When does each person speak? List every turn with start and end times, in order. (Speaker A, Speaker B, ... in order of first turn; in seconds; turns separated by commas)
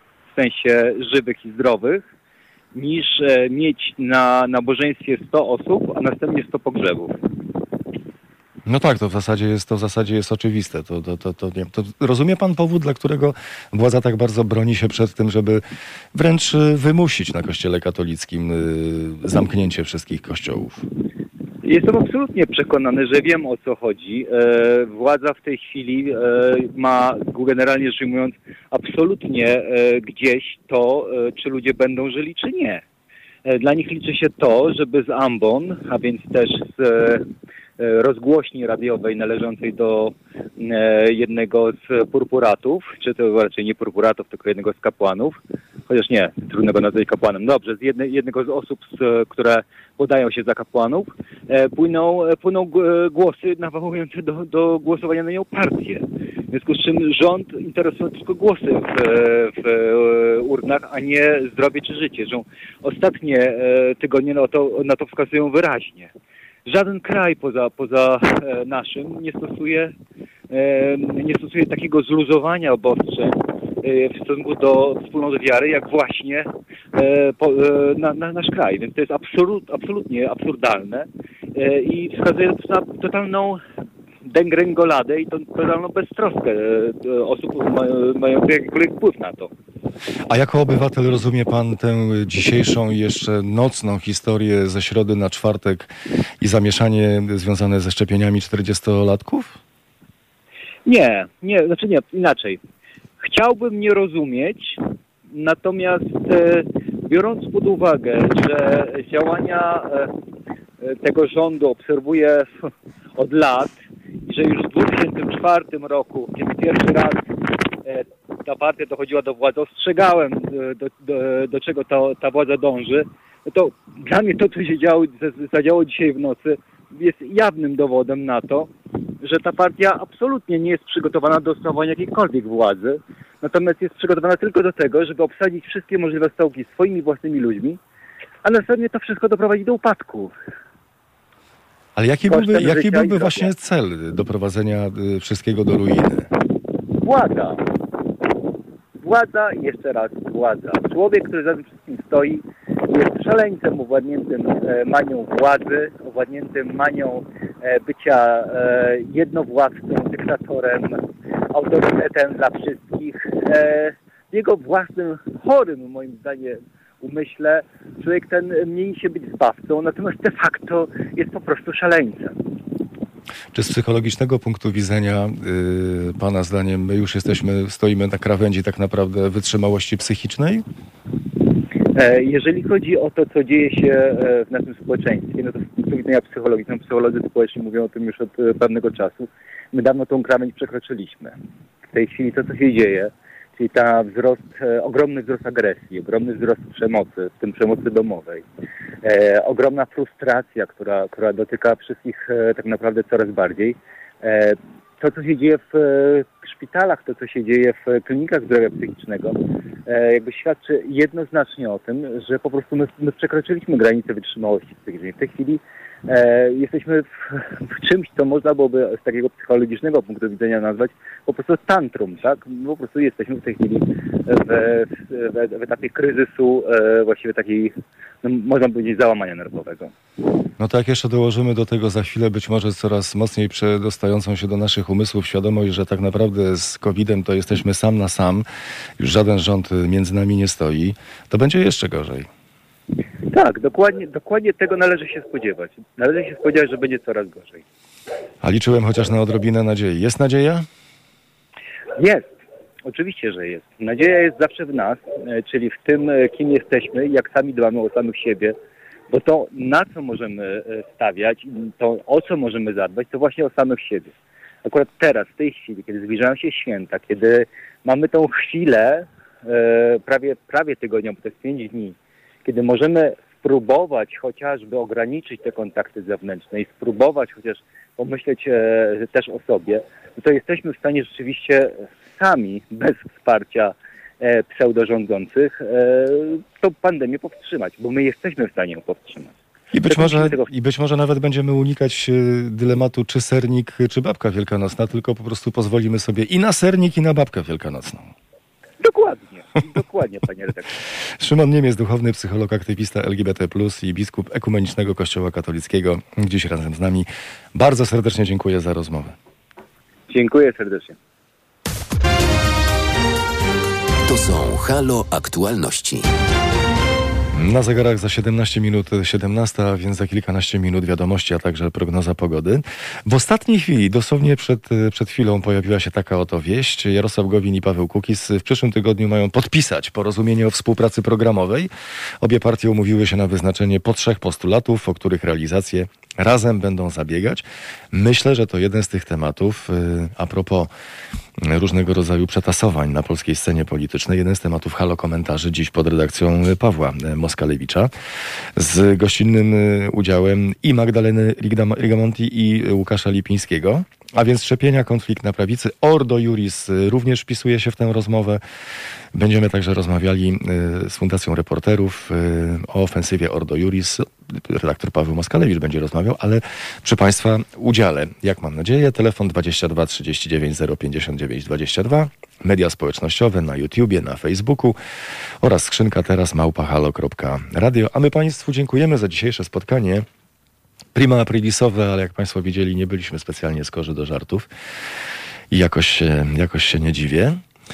Speaker A: 0.3-2.0, Speaker A: 2.7-7.2, Speaker B: 8.7-15.6, Speaker B: 16.1-20.8, Speaker A: 21.6-32.8, Speaker A: 33.5-37.2, Speaker A: 37.8-66.1, Speaker A: 66.7-69.9, Speaker A: 70.5-83.6, Speaker A: 84.2-89.5, Speaker B: 90.3-99.6, Speaker A: 100.8-102.6, Speaker A: 103.2-110.1, Speaker A: 110.8-113.8, Speaker A: 114.3-117.2, Speaker A: 117.8-128.7, Speaker A: 129.2-137.8, Speaker A: 138.4-140.3, Speaker B: 141.9-146.3, Speaker A: 142.3-143.5, Speaker A: 147.0-147.7, Speaker A: 149.0-172.4, Speaker B: 173.5-180.6, Speaker A: 181.9-191.3, Speaker A: 191.9-198.4, Speaker A: 199.0-229.9, Speaker B: 230.6-238.4, Speaker B: 239.0-242.3, Speaker A: 243.3-247.6, Speaker B: 248.4-250.7, Speaker A: 252.0-252.3, Speaker A: 252.8-258.6, Speaker A: 259.1-264.1, Speaker A: 264.6-289.3, Speaker B: 289.7-298.1, Speaker A: 289.9-290.5, Speaker A: 298.8-300.7, Speaker B: 301.2-309.1, Speaker A: 310.1-311.0, Speaker C: 314.1-316.1, Speaker B: 317.3-331.7, Speaker B: 332.2-340.7, Speaker B: 341.4-347.9, Speaker B: 348.6-358.4, Speaker B: 359.1-374.8, Speaker B: 375.4-380.1, Speaker B: 380.9-384.5, Speaker B: 385.5-387.4